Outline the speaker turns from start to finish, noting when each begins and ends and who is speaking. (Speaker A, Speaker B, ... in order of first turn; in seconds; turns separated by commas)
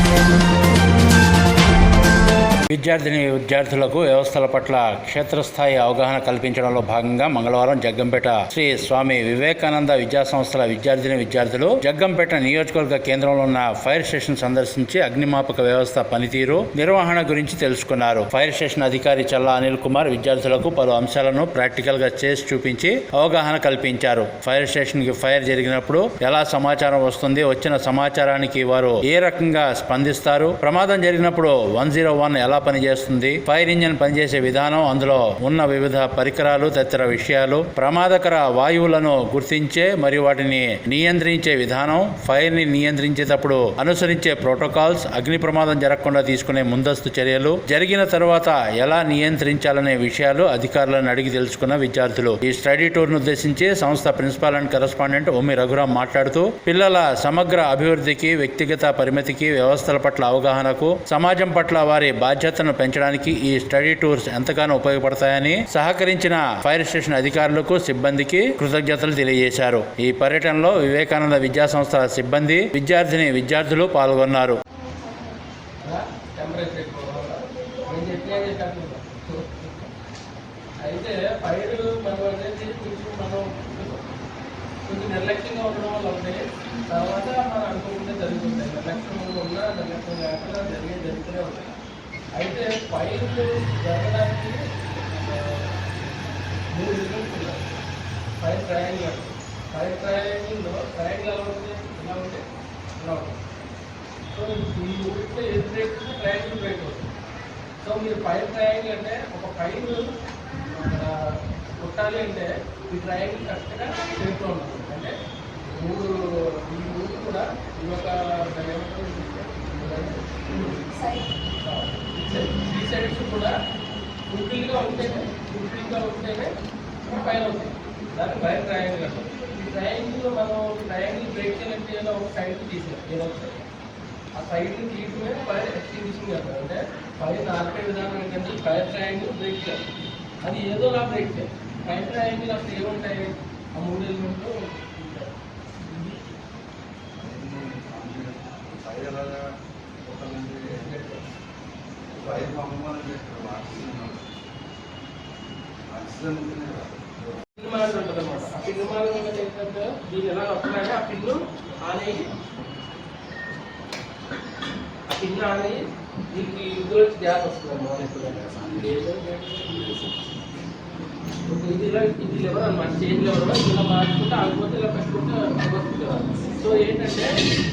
Speaker A: 2.7-74.6, Speaker B: 75.8-79.9, Speaker B: 80.8-84.1, Speaker B: 84.8-91.7, Speaker B: 92.4-94.6, Speaker B: 95.1-95.8, Speaker B: 96.7-97.7, Speaker B: 98.4-102.4, Speaker B: 103.0-103.4, Speaker B: 104.3-107.1, Speaker B: 107.8-110.1, Speaker B: 110.6-115.1, Speaker B: 115.7-120.8, Speaker B: 121.6-123.5, Speaker B: 124.3-126.5, Speaker B: 127.0-133.6, Speaker B: 134.4-139.8, Speaker B: 140.4-146.2, Speaker C: 147.2-149.4, Speaker C: 150.0-150.6, Speaker B: 150.8-151.2, Speaker C: 152.1-154.2, Speaker C: 155.9-157.3, Speaker B: 157.6-162.3, Speaker B: 165.1-165.8, Speaker B: 166.3-169.9, Speaker C: 168.4-168.7, Speaker B: 171.4-177.3